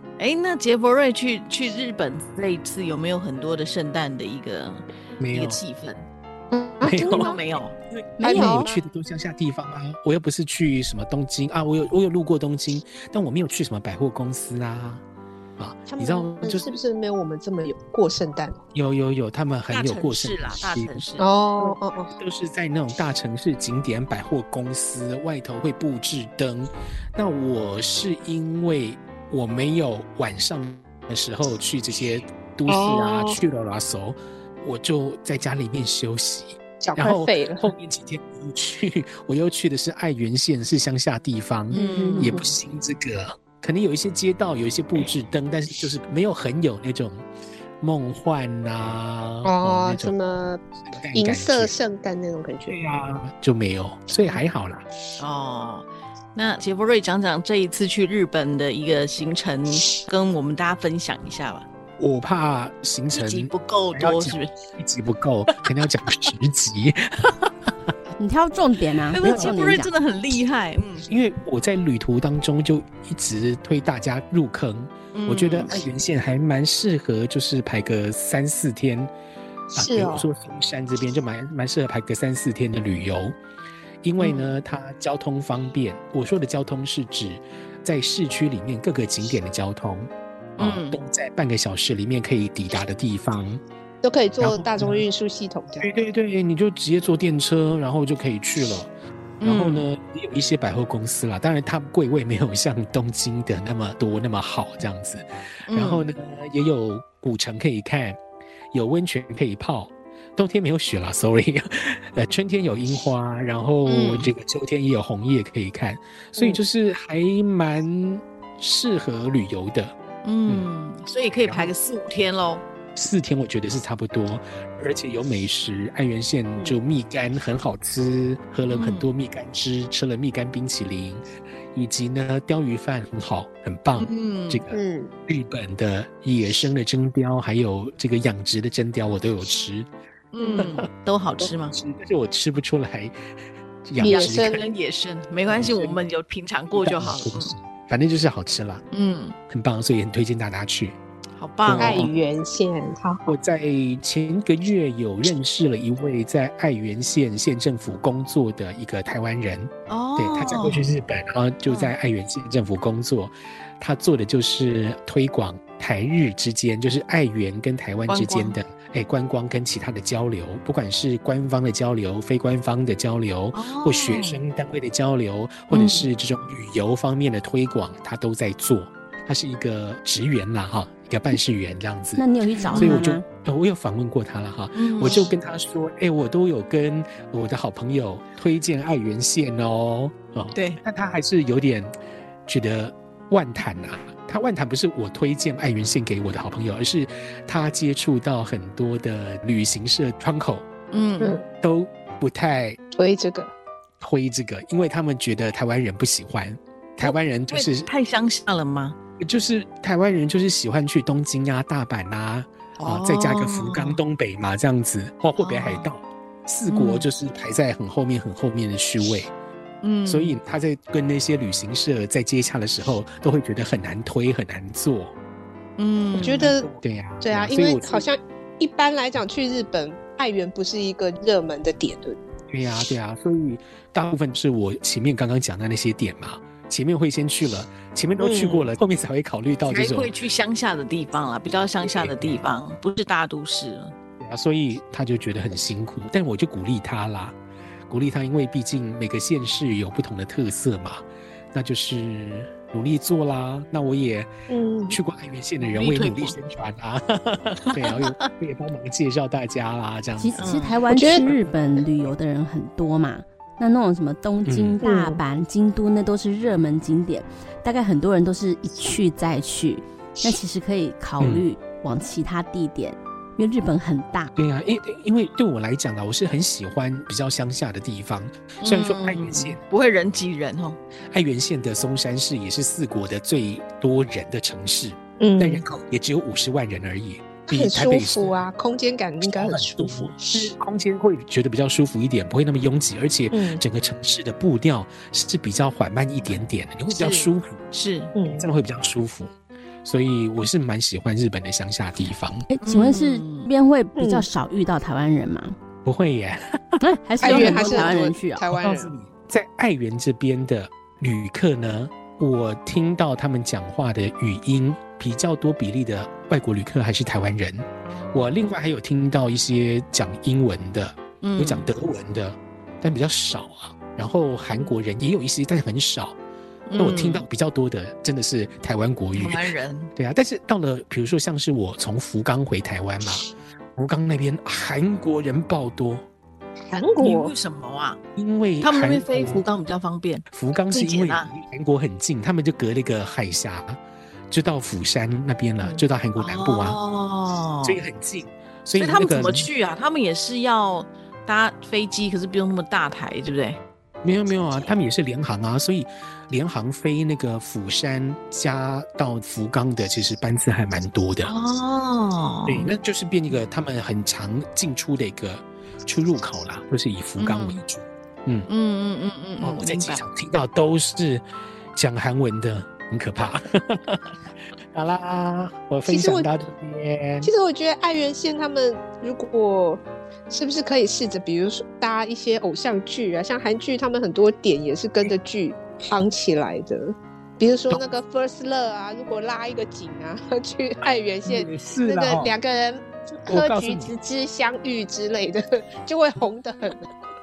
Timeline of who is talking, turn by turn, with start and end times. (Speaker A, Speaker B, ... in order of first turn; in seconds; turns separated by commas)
Speaker A: 0.2-6.0, Speaker B: 5.2-5.6, Speaker C: 6.5-7.4, Speaker B: 6.8-15.0, Speaker A: 7.0-7.7, Speaker C: 8.2-8.7, Speaker D: 8.2-8.6, Speaker B: 15.6-16.6, Speaker C: 15.9-18.6, Speaker B: 18.7-21.0, Speaker A: 19.7-21.2, Speaker C: 21.2-22.1, Speaker B: 22.2-47.2, Speaker C: 32.7-33.4, Speaker C: 36.8-37.7, Speaker A: 41.7-42.4, Speaker C: 41.7-42.5, Speaker B: 47.8-50.1, Speaker C: 49.4-50.6, Speaker B: 50.8-51.7, Speaker C: 51.1-52.8, Speaker B: 52.7-54.8, Speaker A: 55.2-61.6, Speaker B: 62.0-67.7, Speaker A: 63.1-64.5, Speaker D: 68.2-69.9, Speaker A: 69.1-71.1, Speaker B: 69.2-69.6, Speaker B: 71.1-79.1, Speaker A: 75.1-75.8, Speaker C: 79.7-80.3, Speaker B: 79.7-83.4, Speaker B: 84.0-93.6, Speaker A: 84.2-84.5, Speaker A: 90.6-91.0, Speaker C: 94.0-95.9, Speaker B: 94.4-95.0, Speaker B: 95.8-98.9, Speaker A: 99.4-99.8, Speaker B: 99.4-108.2, Speaker A: 105.7-106.0, Speaker B: 108.7-119.9, Speaker A: 113.8-114.3, Speaker C: 116.3-116.6, Speaker A: 120.2-122.6, Speaker B: 121.3-121.7, Speaker B: 123.0-139.9, Speaker A: 128.7-129.1, Speaker A: 134.0-134.6, Speaker C: 134.7-135.1, Speaker A: 140.3-141.7, Speaker B: 140.5-140.9, Speaker B: 141.4-143.1, Speaker B: 143.8-144.7, Speaker C: 144.0-144.6, Speaker A: 144.0-147.5, Speaker B: 145.5-146.0, Speaker B: 146.7-148.8, Speaker A: 148.9-149.3, Speaker B: 149.5-151.0, Speaker A: 151.3-152.1, Speaker B: 151.6-152.1, Speaker C: 151.8-153.3, Speaker B: 153.2-182.2, Speaker A: 159.9-160.8, Speaker A: 161.6-161.9, Speaker A: 168.1-168.6, Speaker A: 173.5-174.4, Speaker A: 175.7-176.1, Speaker D: 182.2-183.2, Speaker A: 182.6-183.0, Speaker B: 182.7-191.9, Speaker A: 184.7-185.3, Speaker A: 190.5-190.8, Speaker B: 192.5-200.7, Speaker A: 200.9-201.4, Speaker B: 201.6-202.8, Speaker C: 202.9-203.5, Speaker B: 204.0-207.9, Speaker A: 207.0-208.9, Speaker B: 209.2-219.3, Speaker A: 212.8-214.0, Speaker A: 215.4-215.9, Speaker A: 216.7-217.1, Speaker A: 219.8-220.4, Speaker B: 220.1-225.1, Speaker A: 225.8-226.5, Speaker C: 226.1-226.7, Speaker B: 226.4-228.0, Speaker C: 227.2-232.2, Speaker B: 232.5-240.1, Speaker C: 238.2-238.7, Speaker A: 239.7-243.9, Speaker B: 241.8-242.4, Speaker B: 244.2-247.4, Speaker B: 247.9-254.3, Speaker C: 254.5-255.0, Speaker B: 254.9-260.4, Speaker A: 255.6-256.4, Speaker A: 257.7-258.3, Speaker D: 260.2-274.3, Speaker A: 260.4-260.8, Speaker C: 260.9-261.3, Speaker B: 264.4-264.8, Speaker C: 264.8-265.2, Speaker B: 274.4-279.6, Speaker A: 278.6-280.8, Speaker B: 281.1-288.4, Speaker C: 285.2-285.6, Speaker C: 287.5-290.5, Speaker B: 289.2-297.6, Speaker C: 293.3-293.6, Speaker A: 296.2-298.1, Speaker C: 298.1-298.4, Speaker B: 298.3-299.3, Speaker B: 299.8-302.4, Speaker D: 302.5-305.6, Speaker A: 302.6-303.5, Speaker C: 303.9-304.3, Speaker B: 305.8-307.9, Speaker D: 306.8-308.4, Speaker C: 307.2-308.9, Speaker B: 308.5-326.2, Speaker A: 317.8-318.3, Speaker A: 321.2-321.7, Speaker A: 326.7-327.2, Speaker B: 326.8-336.0, Speaker A: 329.1-329.9, Speaker C: 336.7-337.3, Speaker A: 337.0-338.0, Speaker B: 338.1-339.4, Speaker A: 338.6-341.3, Speaker B: 340.3-346.8, Speaker A: 346.2-347.8, Speaker B: 347.6-349.5, Speaker A: 348.8-353.6, Speaker B: 354.0-361.3, Speaker A: 361.2-362.7, Speaker B: 362.5-368.5, Speaker A: 367.2-367.6, Speaker A: 368.5-370.0, Speaker B: 369.4-371.2, Speaker B: 371.7-374.1, Speaker B: 374.7-377.3, Speaker C: 375.9-376.4, Speaker C: 377.2-396.9, Speaker B: 391.2-392.3, Speaker B: 393.3-393.9